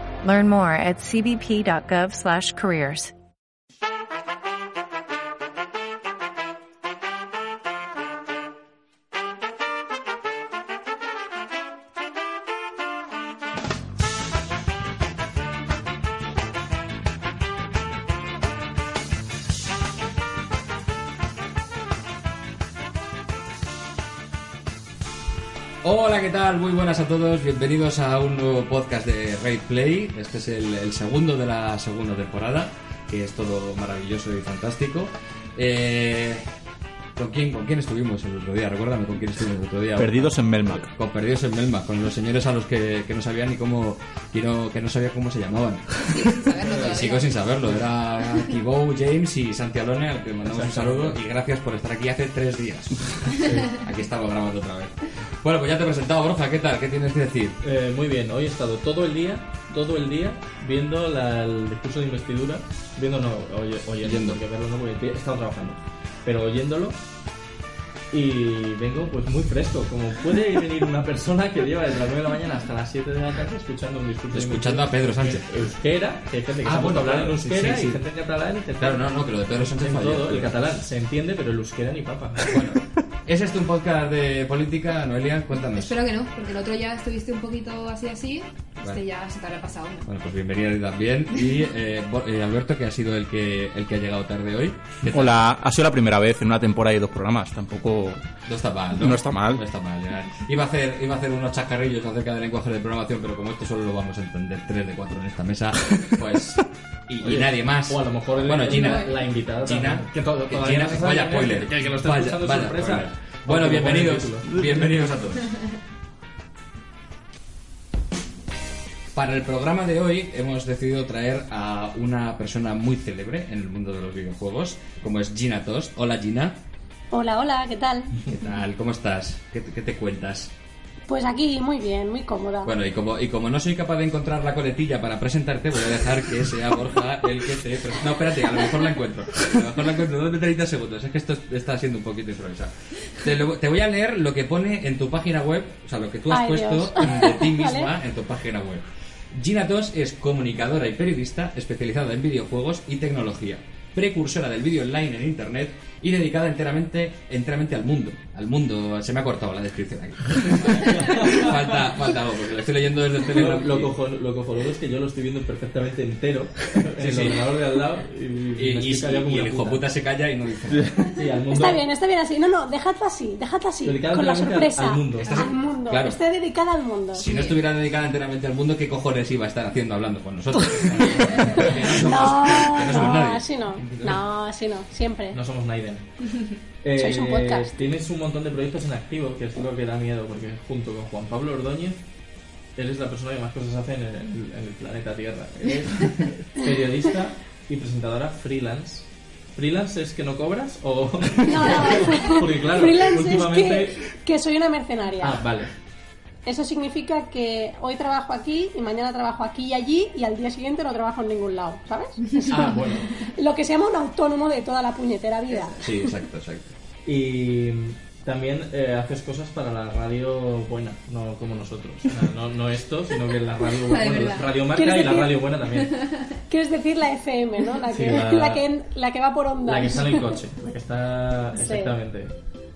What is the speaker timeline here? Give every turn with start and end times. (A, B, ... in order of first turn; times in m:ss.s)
0:00.2-0:03.1 A
0:25.8-0:36.5 B
0:37.2-0:57.6 B
0:40.0-0:40.9 C
0:46.1-0:47.4 D
0:50.4-0:51.2 E
0:57.6-1:07.0 E
1:04.0-1:04.4 B
1:08.1-1:22.6 E
1:14.3-1:15.7 B
1:16.6-1:18.0 B
1:18.8-1:20.6 B
1:22.5-1:26.0 B
1:25.7-1:30.1 D
1:30.0-1:35.4 B
1:35.1-1:38.3 C
1:38.5-1:55.6 B
1:39.0-1:39.6 C
1:47.2-1:54.8 E
1:48.7-1:49.2 D
1:59.1-2:06.6 B
2:07.1-2:08.2 F
2:08.3-2:10.5 B
2:11.1-2:12.7 F
2:12.6-2:43.9 B
2:26.3-2:27.9 F
2:41.1-2:41.6 E
2:43.2-2:49.8 E
2:47.0-2:47.4 B
2:48.6-2:51.2 B
2:51.1-2:51.8 E
2:51.6-2:57.5 F
2:53.8-2:55.3 E
2:55.2-2:56.2 B
2:57.1-3:04.2 B
3:02.0-3:05.4 F
3:05.3-3:06.1 E
3:06.8-3:12.0 E
3:07.0-3:07.7 F
3:12.8-3:24.0 E
3:21.4-3:25.4 F
3:25.2-3:25.7 E
3:26.5-3:35.8 F
3:32.5-3:33.1 E
3:35.8-3:36.7 B
3:37.1-3:46.0 E
3:43.8-3:44.5 D
3:44.8-3:45.4 F
3:45.9-3:46.3 D
3:46.5-3:50.4 F
3:47.9-3:48.6 E
3:49.7-3:52.3 E
3:51.6-3:51.9 F